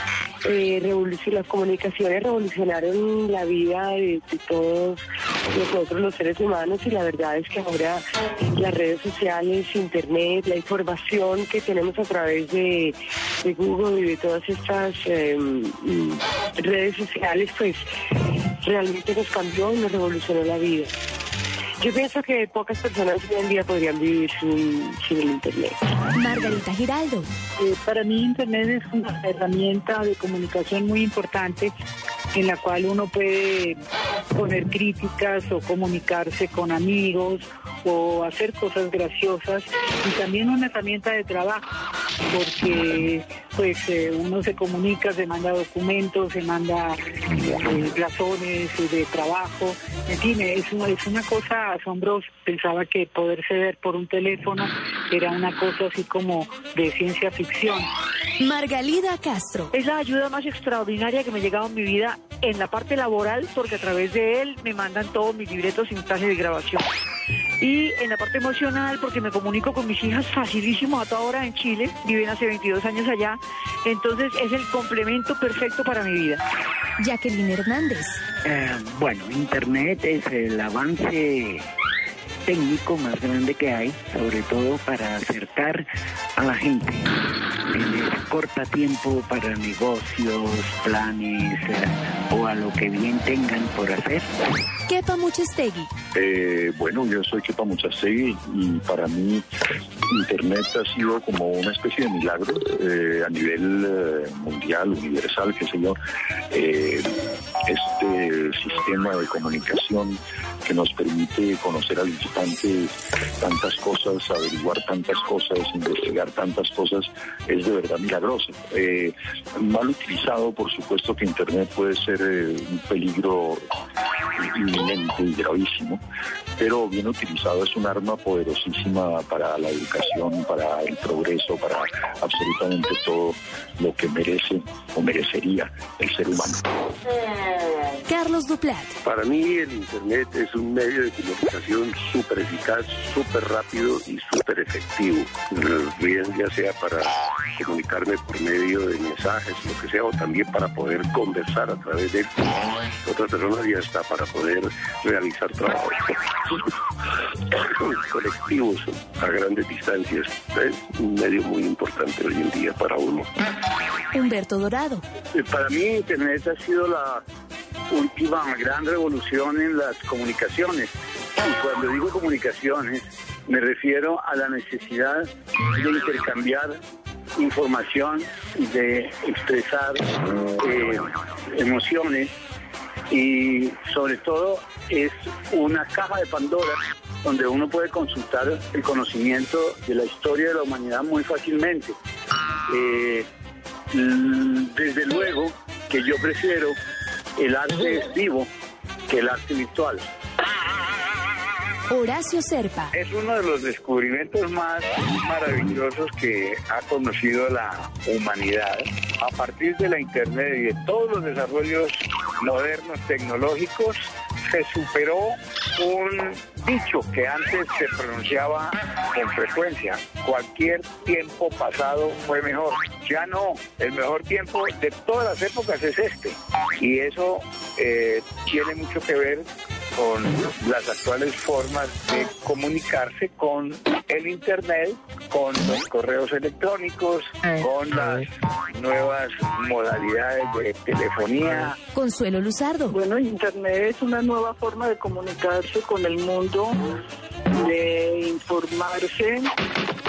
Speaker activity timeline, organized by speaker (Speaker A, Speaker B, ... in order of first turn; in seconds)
Speaker A: 0.4-17.8, 18.6-20.9, 21.8-25.8
Speaker B: 26.1-27.3, 58.4-59.7, 77.0-78.2, 94.9-95.9, 138.1-138.9, 164.1-165.0, 201.9-202.9, 241.9-243.0
Speaker C: 27.6-31.7, 32.3-33.8, 34.3-41.7, 42.3-57.9, 242.9-246.8, 247.5-249.5
Speaker D: 59.7-66.9, 67.6-76.4
Speaker E: 78.4-81.7, 82.5-87.2, 87.7-94.3
Speaker F: 96.1-99.5, 100.1-106.0, 106.5-123.6, 124.3-126.0, 126.6-136.6
Speaker G: 139.0-152.4, 153.0-156.6, 157.5-163.3
Speaker H: 165.3-167.2, 167.9-176.8, 177.3-180.1, 180.6-182.3, 183.1-191.9, 192.7-193.3, 193.9-196.8, 197.4-198.5, 199.1-200.1, 202.9-241.8